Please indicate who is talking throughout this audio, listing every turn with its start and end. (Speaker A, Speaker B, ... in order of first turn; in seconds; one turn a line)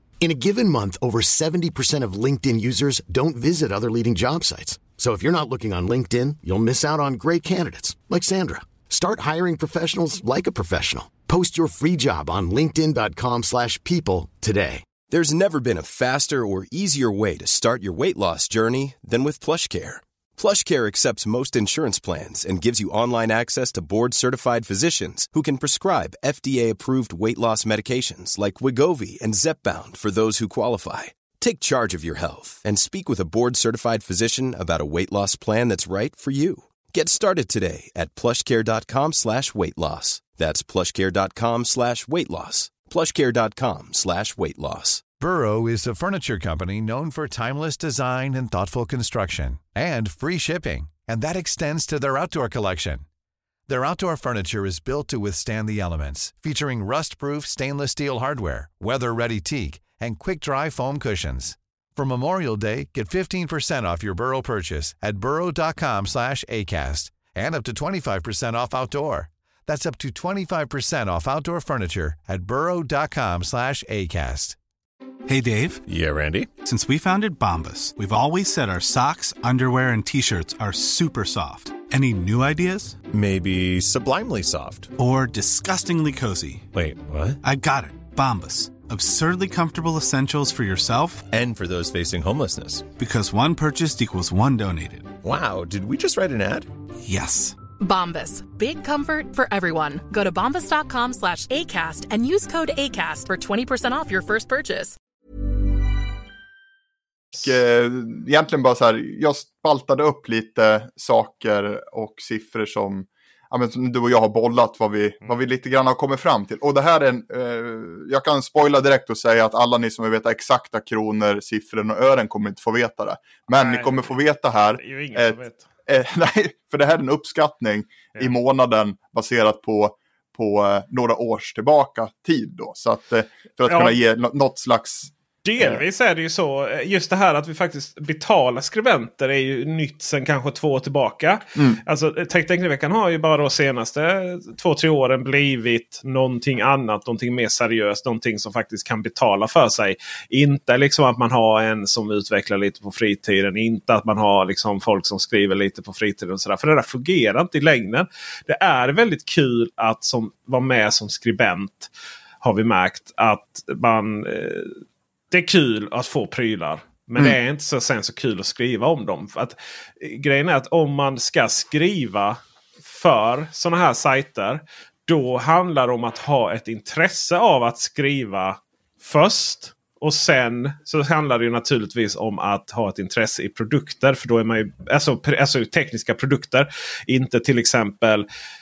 Speaker A: 0.2-14.9
Speaker B: 15.1-45.1
Speaker C: 45.2-53.0
Speaker C: 53.7-74.6
Speaker D: 75.3-75.8
Speaker E: 75.9-76.5
Speaker D: 76.6-83.0
Speaker E: 83.1-84.9
Speaker D: 85.0-86.7
Speaker E: 86.7-87.4
Speaker D: 87.4-91.2
Speaker E: 91.3-92.9
Speaker D: 93.0-95.1
Speaker E: 95.2-96.7
Speaker D: 97.0-97.6
Speaker F: 97.8-105.0
Speaker G: 107.4-135.8
Speaker H: 123.5-124.1
Speaker H: 124.8-125.7
Speaker H: 133.7-134.0
Speaker H: 135.4-161.9
Speaker G: 141.6-141.8
Speaker H: 162.4-164.8
Speaker H: 165.3-188.3